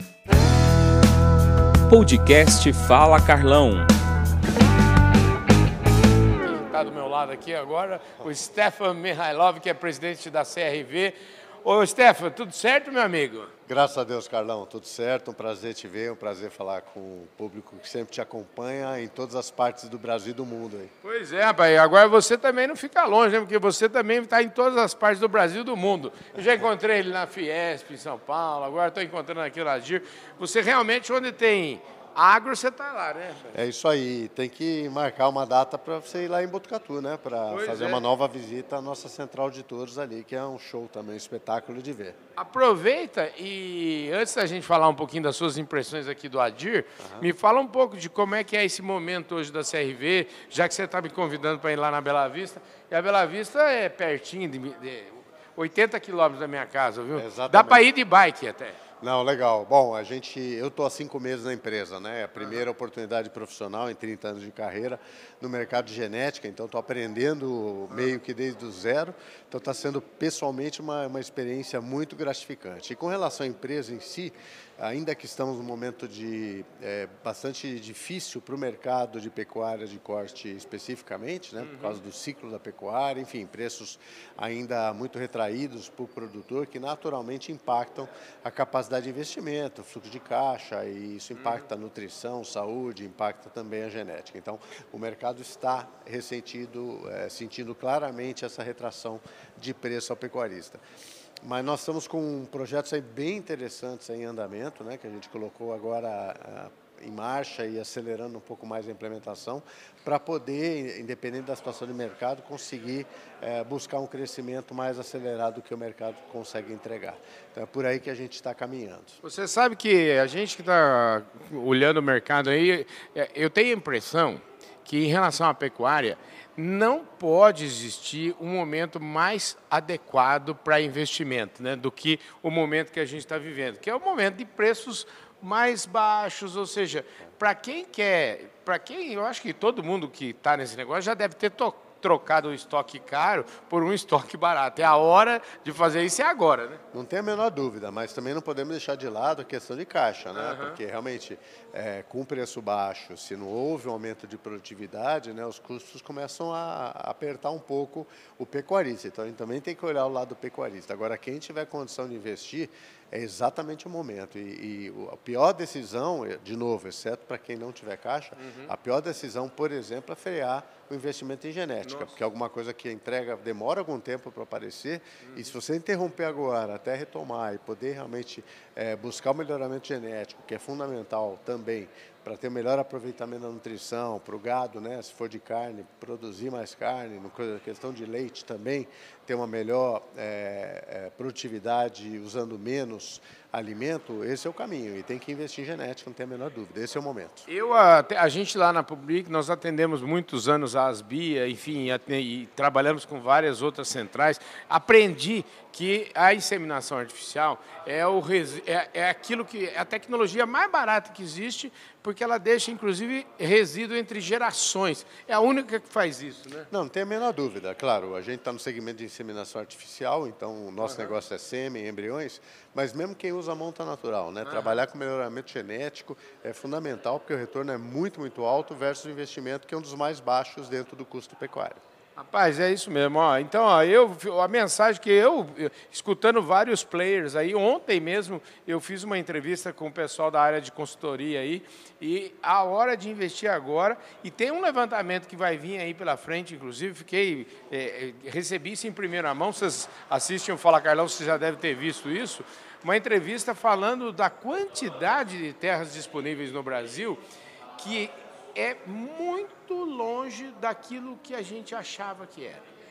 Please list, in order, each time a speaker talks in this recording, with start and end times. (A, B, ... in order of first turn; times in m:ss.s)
0:01.9-0:03.9 A
0:06.4-0:13.5 A
0:13.7-0:20.9 B
0:21.0-0:33.5 A
0:33.5-0:42.2 B
0:37.5-0:38.0 A
0:42.4-0:58.8 A
0:47.0-0:47.3 B
0:57.1-0:57.9 B
0:59.0-1:40.8 B
1:07.9-1:08.2 A
1:21.6-1:22.0 A
1:31.4-1:31.6 A
1:41.4-1:59.2 B
1:59.2-2:26.8 A
2:26.9-3:17.5 B
2:30.3-2:30.8 A
2:48.4-2:48.7 A
2:51.8-2:52.1 A
2:55.2-2:55.5 A
3:17.5-3:36.7 A
3:36.7-3:51.8 B
3:40.8-3:41.1 A
3:44.4-3:44.8 A
3:52.2-4:17.2 A
4:17.8-4:22.6 A